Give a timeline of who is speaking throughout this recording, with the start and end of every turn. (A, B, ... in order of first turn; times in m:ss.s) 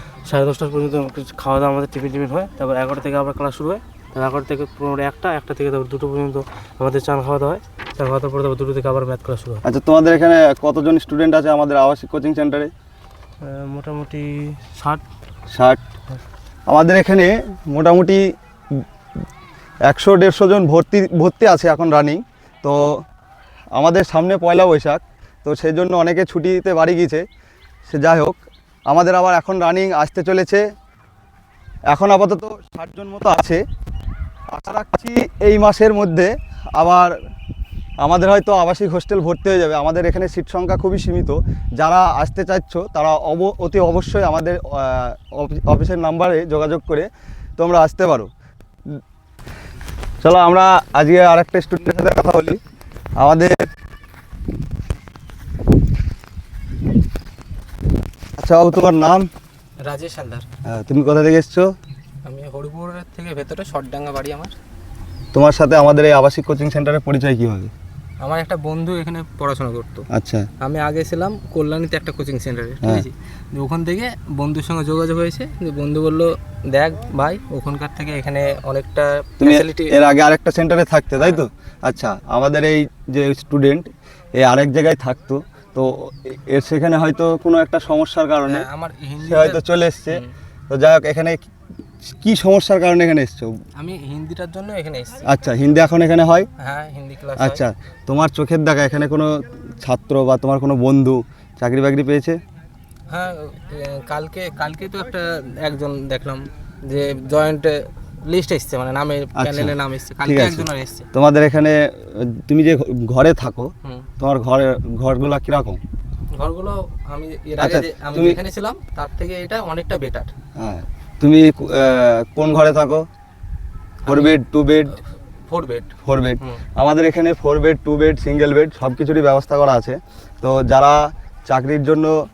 0:00.2-0:09.6 A
0:09.6-0:12.7 B
0:13.4-0:15.0 A
0:15.5-0:15.8 B
0:16.7-0:18.2 B
0:19.9-0:23.0 B
0:23.7-0:27.2 B
0:27.9-0:30.6 B
0:31.9-0:33.6 B
0:34.5-0:37.1 B
0:38.0-0:48.3 B
0:50.2-0:52.6 B
0:53.2-0:53.6 B
0:58.4-0:59.3 B
0:59.8-1:00.4 C
1:00.6-1:01.7 B
1:02.2-1:04.6 C
1:05.3-1:07.7 B
1:08.2-1:10.1 C
1:10.1-1:10.5 B
1:10.6-1:19.9 C
1:19.4-1:28.7 B
1:28.5-1:30.3 C
1:29.2-1:31.4 B
1:32.0-1:33.5 B
1:33.8-1:35.3 C
1:35.2-1:36.5 B
1:36.6-1:37.6 C
1:37.4-1:42.4 B
1:43.1-1:51.1 C
1:49.3-1:49.7 B
1:50.2-1:55.8 B
1:56.3-2:00.3 C
1:57.6-1:58.4 B
2:00.6-2:03.0 B
2:04.0-2:04.3 C
2:04.1-2:04.9 B
2:04.9-2:06.6 C
2:06.0-2:12.1 B